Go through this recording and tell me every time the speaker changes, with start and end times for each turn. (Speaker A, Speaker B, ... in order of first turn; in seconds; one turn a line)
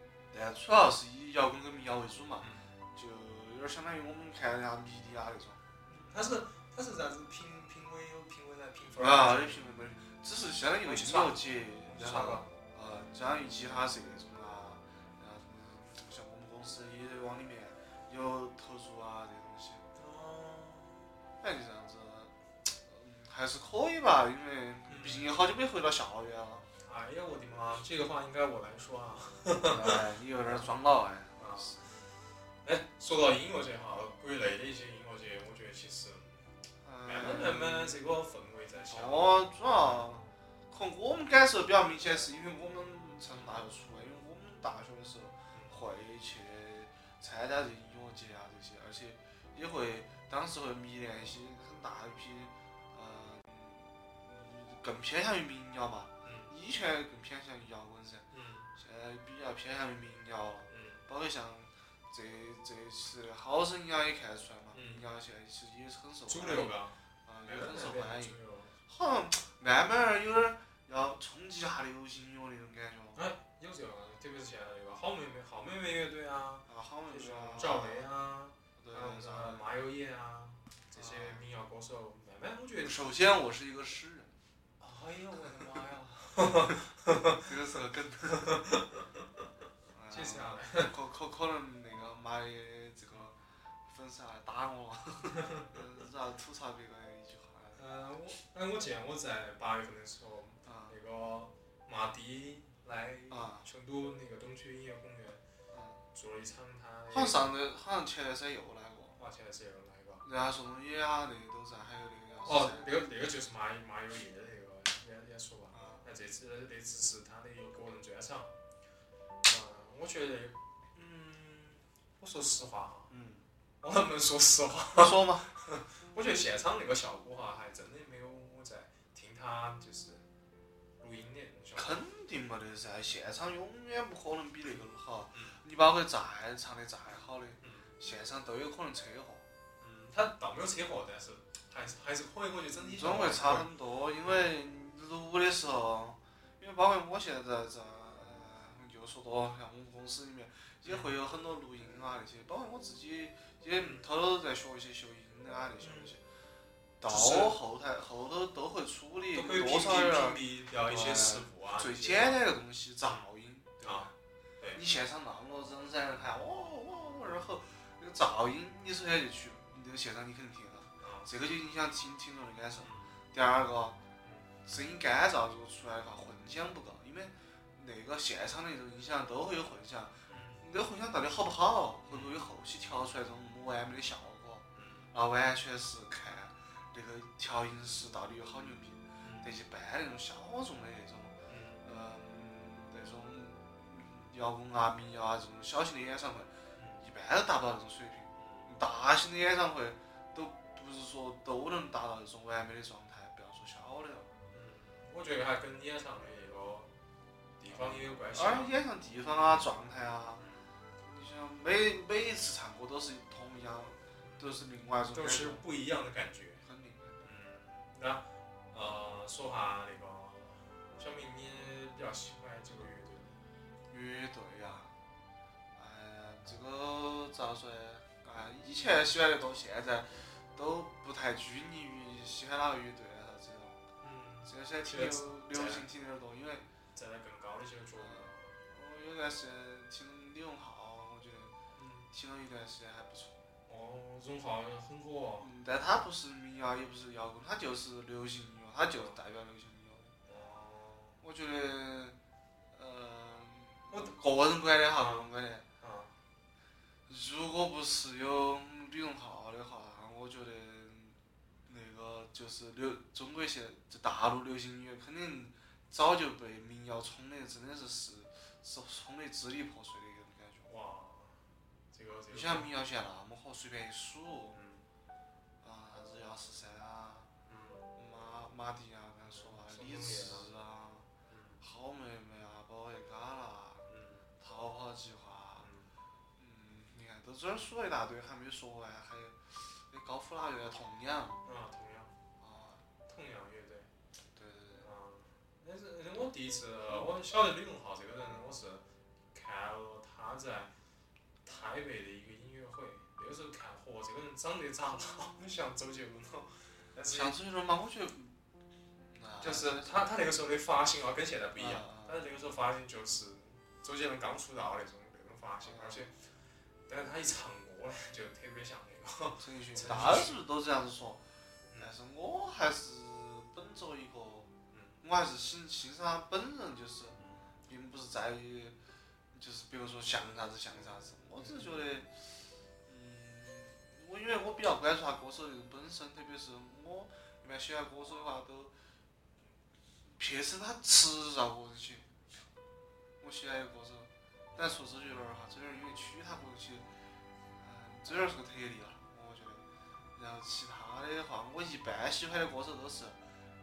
Speaker A: 0.3-5.6
Speaker B: 2.4-2.7
Speaker B: 5.9-9.7
Speaker A: 9.0-19.9
Speaker B: 10.8-12.5
Speaker B: 20.0-21.1
Speaker A: 21.4-22.3
Speaker A: 22.8-26.7
Speaker B: 24.9-25.4
Speaker B: 26.9-30.8
Speaker A: 29.6-31.8
Speaker B: 31.4-31.9
Speaker B: 32.6-36.4
Speaker A: 36.8-38.0
Speaker B: 37.0-40.0
Speaker A: 38.9-58.2
Speaker B: 45.5-45.8
Speaker B: 56.2-56.5
Speaker B: 58.3-58.7
Speaker A: 58.8-73.2
Speaker B: 60.7-61.0
Speaker B: 64.7-65.0
Speaker B: 66.3-68.7
Speaker B: 73.2-83.1
Speaker A: 76.7-78.1
Speaker A: 78.8-79.7
Speaker A: 81.0-81.4
Speaker A: 82.8-84.3
Speaker B: 84.8-87.5
Speaker A: 87.4-88.7
Speaker B: 88.3-89.0
Speaker A: 89.9-97.8
Speaker B: 90.1-90.9
Speaker B: 95.3-95.7
Speaker B: 97.8-105.4
Speaker A: 100.7-101.0
Speaker A: 103.3-103.7
Speaker A: 105.7-106.0
Speaker B: 106.1-107.6
Speaker A: 107.1-109.2
Speaker B: 109.2-110.2
Speaker A: 110.2-113.0
Speaker B: 112.5-118.5
Speaker A: 115.7-116.0
Speaker B: 119.5-123.1
Speaker A: 123.1-123.5
Speaker B: 123.8-130.2
Speaker A: 125.0-125.5
Speaker B: 131.0-132.0
Speaker A: 131.8-139.4
Speaker B: 135.3-135.6
Speaker B: 137.6-137.9
Speaker B: 139.8-143.7
Speaker A: 142.7-156.2
Speaker B: 144.2-144.5
Speaker B: 150.8-151.1
Speaker B: 153.8-154.1
Speaker B: 155.8-156.1
Speaker A: 157.0-164.1
Speaker B: 157.1-157.6
Speaker B: 159.3-162.4
Speaker B: 163.8-164.8
Speaker A: 164.8-174.0
Speaker B: 171.0-171.3
Speaker B: 172.8-173.2
Speaker B: 174.2-174.5
Speaker A: 174.7-204.3
Speaker B: 180.3-180.6
Speaker B: 182.1-182.4
Speaker B: 184.8-185.1
Speaker B: 189.2-189.5
Speaker B: 191.5-191.8
Speaker B: 196.8-197.0
Speaker B: 198.4-198.7
Speaker B: 204.5-206.9
Speaker B: 207.6-208.7
Speaker A: 207.7-210.4
Speaker B: 210.4-210.7
Speaker A: 211.0-215.6
Speaker B: 214.2-214.6
Speaker B: 215.1-216.6
Speaker A: 216.6-217.3
Speaker B: 217.2-223.4
Speaker A: 223.9-224.9
Speaker A: 225.8-233.8
Speaker B: 234.0-235.9
Speaker A: 234.5-236.7
Speaker B: 236.9-238.5
Speaker A: 238.0-241.5
Speaker B: 241.8-242.1
Speaker A: 242.1-243.4
Speaker B: 243.7-245.5
Speaker A: 245.4-250.1
Speaker B: 250.3-251.2
Speaker A: 251.2-252.2
Speaker A: 252.7-255.7
Speaker B: 253.9-254.2
Speaker B: 254.9-256.1
Speaker A: 257.1-270.7
Speaker B: 270.7-271.4
Speaker B: 271.9-272.7
Speaker A: 272.3-274.6
Speaker B: 274.5-274.8
Speaker A: 275.6-277.3
Speaker B: 277.5-277.9
Speaker A: 278.0-281.1
Speaker B: 279.3-280.5
Speaker B: 281.3-281.6
Speaker A: 281.6-283.9
Speaker B: 283.9-284.2
Speaker A: 284.4-285.7
Speaker B: 285.6-285.9
Speaker A: 286.4-291.4
Speaker B: 291.4-292.1
Speaker A: 292.4-292.8
Speaker B: 293.1-293.9
Speaker A: 294.4-294.9
Speaker B: 294.8-300.7
Speaker B: 301.4-307.4
Speaker A: 307.1-308.3
Speaker A: 309.1-310.0
Speaker B: 309.4-316.1
Speaker A: 311.6-312.2
Speaker A: 315.6-316.1
Speaker B: 316.9-320.4
Speaker A: 319.4-321.2
Speaker A: 321.8-324.5
Speaker B: 324.7-325.0
Speaker A: 325.0-327.2
Speaker B: 327.2-327.4
Speaker A: 327.7-328.8
Speaker A: 329.3-332.1
Speaker B: 331.4-331.8
Speaker A: 332.9-338.7
Speaker A: 340.2-342.3
Speaker A: 343.2-346.9
Speaker A: 347.6-349.6
Speaker A: 350.1-353.2